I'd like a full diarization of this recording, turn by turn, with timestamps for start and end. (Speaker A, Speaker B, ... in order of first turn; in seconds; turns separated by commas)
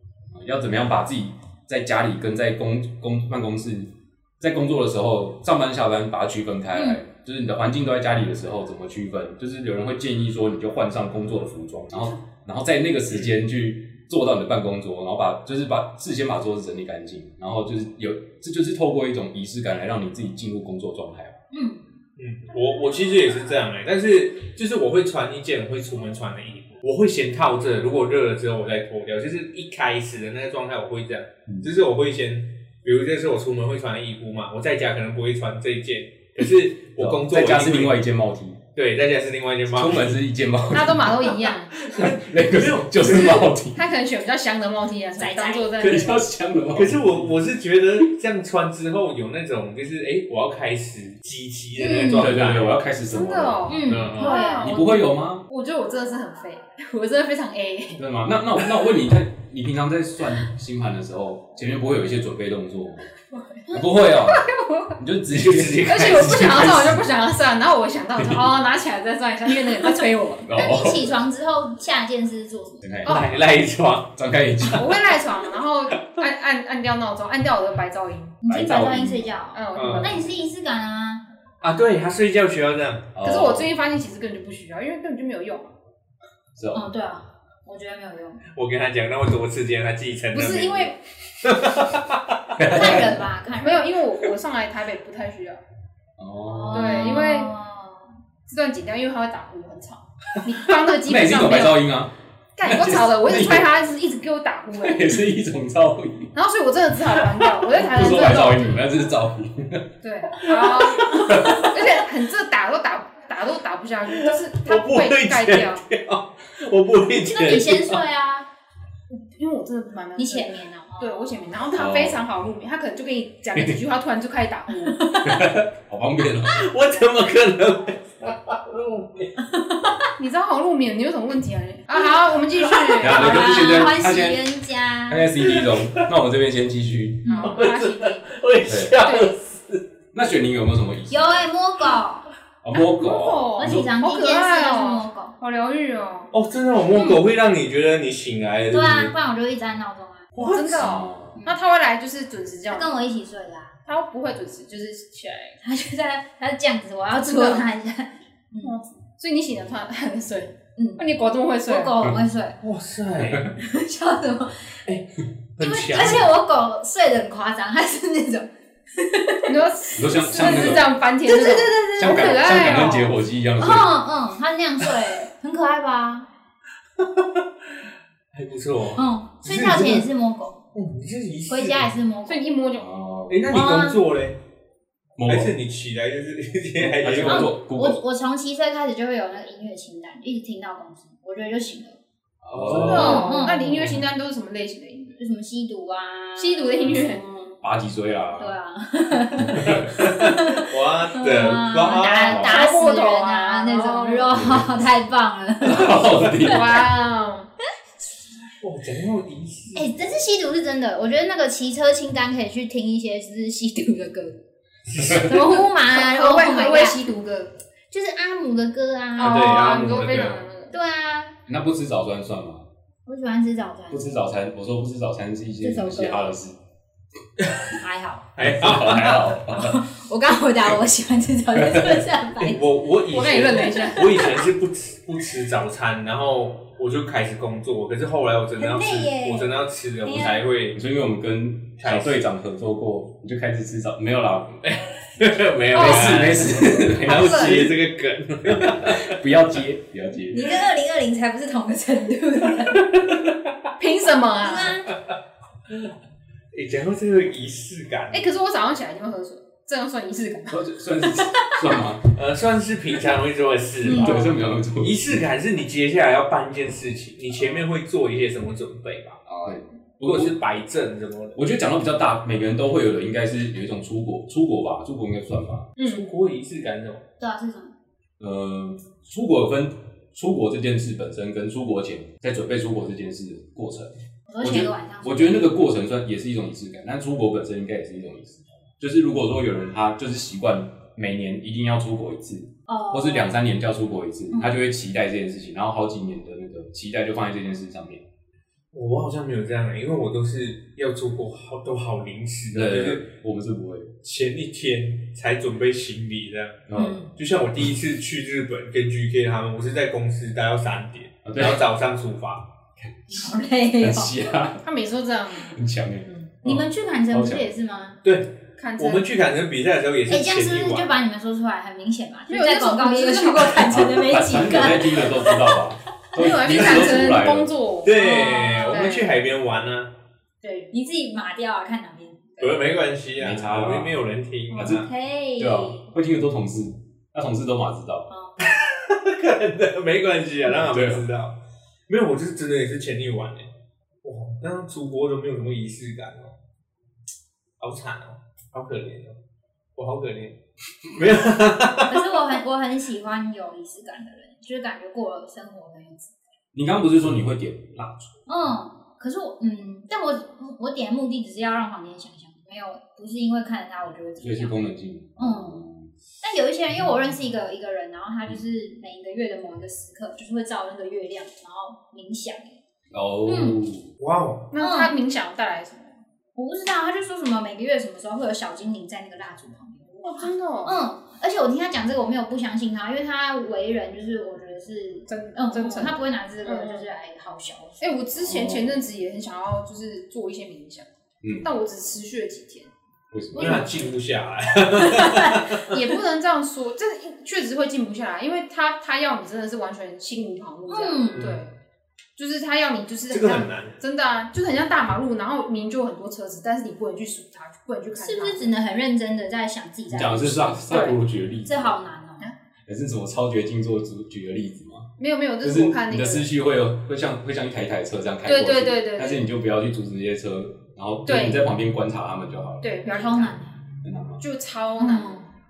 Speaker A: 0.3-21.4, Speaker B: 6.7-7.0, Speaker B: 21.5-21.8, Speaker C: 22.2-38.0, Speaker A: 37.0-38.6, Speaker C: 38.7-40.2, Speaker A: 39.7-43.9, Speaker D: 40.7-41.7, Speaker C: 41.8-43.5, Speaker D: 43.1-46.2, Speaker B: 45.2-45.9, Speaker A: 45.8-47.3, Speaker C: 46.7-52.8, Speaker B: 51.8-52.4, Speaker A: 52.1-55.4, Speaker D: 53.1-58.0, Speaker B: 53.7-54.7, Speaker C: 53.9-54.5, Speaker A: 58.0-63.1, Speaker D: 63.7-65.0, Speaker A: 63.7-67.0, Speaker C: 65.3-66.4, Speaker D: 65.8-70.5, Speaker A: 68.2-68.5, Speaker A: 70.4-71.1, Speaker B: 70.5-72.9, Speaker A: 72.8-73.6, Speaker C: 73.0-74.1, Speaker A: 74.1-75.2, Speaker D: 74.7-78.3, Speaker B: 78.4-81.2, Speaker A: 78.5-79.3, Speaker D: 79.5-80.2, Speaker C: 79.8-80.2, Speaker C: 81.6-83.1, Speaker A: 83.1-83.7, Speaker D: 83.2-85.7, Speaker A: 86.5-86.8, Speaker B: 86.7-88.4, Speaker C: 88.5-92.7, Speaker D: 90.3-91.0, Speaker A: 92.6-93.2, Speaker B: 92.7-94.0, Speaker D: 93.5-95.6, Speaker A: 96.2-97.2, Speaker B: 96.4-98.1, Speaker D: 96.7-97.5, Speaker D: 98.5-101.9, Speaker A: 101.0-103.7, Speaker D: 102.6-105.2, Speaker A: 104.7-106.3, Speaker D: 106.3-108.8, Speaker A: 107.1-109.9, Speaker D: 110.0-115.8, Speaker A: 110.4-111.8, Speaker C: 114.3-118.0, Speaker B: 117.2-118.5, Speaker D: 119.1-125.0, Speaker B: 120.2-121.5, Speaker A: 121.7-122.2, Speaker B: 124.8-125.4, Speaker A: 125.2-126.6, Speaker C: 126.5-129.3, Speaker D: 130.2-133.6, Speaker B: 132.9-135.3, Speaker A: 133.0-134.4, Speaker A: 135.1-137.3, Speaker C: 135.4-136.1, Speaker B: 137.2-137.6, Speaker D: 137.3-138.2, Speaker C: 137.4-139.8, Speaker A: 138.6-138.9, Speaker D: 139.0-139.3, Speaker A: 140.1-141.5, Speaker B: 141.1-142.3, Speaker A: 142.6-143.9, Speaker D: 143.0-146.3, Speaker B: 143.6-145.3, Speaker C: 146.3-149.1, Speaker B: 146.9-147.2, Speaker B: 148.7-150.3, Speaker C: 150.3-150.9, Speaker D: 150.4-152.9, Speaker A: 150.6-151.4, Speaker B: 152.7-153.7, Speaker D: 153.8-155.6, Speaker B: 155.6-158.8, Speaker D: 157.2-157.7, Speaker D: 158.6-161.9, Speaker B: 160.8-161.0, Speaker B: 161.7-162.6, Speaker C: 162.6-163.5, Speaker A: 163.2-163.5, Speaker B: 163.5-164.9, Speaker C: 164.9-166.3, Speaker B: 165.6-169.6, Speaker D: 169.5-173.1, Speaker A: 169.9-170.9, Speaker B: 170.2-172.8, Speaker A: 172.0-174.0, Speaker B: 173.6-176.3, Speaker C: 177.0-177.4, Speaker C: 178.3-180.1, Speaker B: 178.9-180.6, Speaker C: 180.7-181.9, Speaker B: 181.5-182.5, Speaker D: 182.3-182.9, Speaker A: 182.8-183.7, Speaker C: 183.3-184.4, Speaker B: 183.5-184.0, Speaker A: 185.2-185.5, Speaker C: 185.2-187.5, Speaker A: 186.8-188.0, Speaker B: 187.2-192.0, Speaker A: 192.4-194.0, Speaker C: 192.5-193.3, Speaker D: 192.8-195.2, Speaker B: 192.9-193.9, Speaker B: 195.2-197.3, Speaker D: 196.3-197.5, Speaker A: 197.6-198.6, Speaker B: 198.4-206.1, Speaker A: 199.4-199.9, Speaker C: 199.6-202.5, Speaker D: 202.2-204.3, Speaker A: 202.3-202.6, Speaker A: 204.3-204.7, Speaker A: 205.6-206.8, Speaker D: 206.2-207.5, Speaker C: 208.6-210.1, Speaker B: 209.7-214.4, Speaker C: 214.9-215.6, Speaker B: 215.0-217.0, Speaker D: 215.3-217.5, Speaker B: 217.9-219.8, Speaker D: 219.2-220.7, Speaker C: 219.2-220.4, Speaker B: 220.7-221.3, Speaker A: 221.5-222.6, Speaker B: 223.1-224.2, Speaker A: 223.9-226.6, Speaker B: 225.6-226.3, Speaker B: 227.8-232.6, Speaker C: 228.3-229.3, Speaker A: 228.4-229.8, Speaker A: 231.6-232.1, Speaker C: 232.4-240.8, Speaker D: 233.1-234.4, Speaker B: 233.2-234.4, Speaker B: 238.6-240.4, Speaker A: 240.7-244.7, Speaker C: 241.8-242.2, Speaker C: 244.6-249.2, Speaker D: 245.7-247.7, Speaker A: 245.7-247.8, Speaker A: 248.5-250.5, Speaker B: 250.3-252.9, Speaker C: 253.0-253.3, Speaker D: 253.8-254.8, Speaker B: 254.4-254.9, Speaker C: 256.5-258.3, Speaker D: 258.1-260.6, Speaker A: 260.5-262.1, Speaker B: 261.0-261.7, Speaker C: 262.1-271.4, Speaker A: 263.8-265.2, Speaker B: 263.9-264.2, Speaker A: 269.3-270.4, Speaker A: 271.4-275.7, Speaker D: 275.8-276.0, Speaker C: 275.8-277.0, Speaker B: 277.2-277.7, Speaker A: 278.2-298.0, Speaker B: 284.3-285.5, Speaker B: 292.7-293.4, Speaker B: 294.3-294.6, Speaker C: 298.7-303.0, Speaker A: 302.5-303.9, Speaker C: 304.0-306.6, Speaker A: 306.7-307.0, Speaker B: 306.7-307.1, Speaker C: 307.1-312.4, Speaker A: 311.2-311.6, Speaker A: 313.1-314.6, Speaker B: 313.1-314.2, Speaker D: 314.6-316.3, Speaker A: 315.4-317.5, Speaker B: 316.4-318.0, Speaker C: 318.0-320.9, Speaker D: 318.6-319.1, Speaker B: 320.1-325.6, Speaker D: 322.3-323.8, Speaker A: 323.7-327.5, Speaker D: 326.1-329.1, Speaker C: 327.8-329.9, Speaker B: 327.9-328.9, Speaker B: 330.4-332.6, Speaker C: 332.4-334.9, Speaker A: 333.2-334.0, Speaker B: 334.5-335.8, Speaker A: 334.5-334.9, Speaker A: 335.4-338.1, Speaker B: 338.1-338.4, Speaker C: 338.4-341.3, Speaker A: 340.6-341.0, Speaker C: 341.9-343.5, Speaker C: 344.0-346.3, Speaker C: 347.6-349.2, Speaker C: 349.8-350.4, Speaker C: 350.9-352.1, Speaker B: 351.8-356.1, Speaker A: 356.5-358.2, Speaker B: 358.3-364.6, Speaker A: 364.2-365.9, Speaker B: 365.1-365.6, Speaker B: 366.2-372.6, Speaker A: 372.9-373.9, Speaker B: 373.2-373.6, Speaker C: 374.0-374.5, Speaker D: 374.5-376.0, Speaker B: 374.6-374.9, Speaker B: 376.3-387.9, Speaker D: 380.0-380.8, Speaker D: 385.1-386.9, Speaker D: 387.8-390.8, Speaker A: 388.2-388.8, Speaker D: 391.4-392.7, Speaker A: 393.1-393.7, Speaker B: 393.3-394.0, Speaker C: 393.4-395.7, Speaker B: 394.8-395.3, Speaker D: 395.7-401.5, Speaker B: 400.7-401.3, Speaker D: 402.2-408.5, Speaker C: 403.1-403.8, Speaker B: 408.0-412.3, Speaker A: 409.9-411.8, Speaker D: 410.7-411.0, Speaker A: 412.6-414.9, Speaker D: 415.0-416.3, Speaker A: 415.4-422.7, Speaker D: 418.2-419.2, Speaker D: 421.1-421.5, Speaker D: 422.6-423.5, Speaker B: 422.8-423.5, Speaker A: 423.8-424.2, Speaker D: 424.2-425.2, Speaker B: 424.8-425.2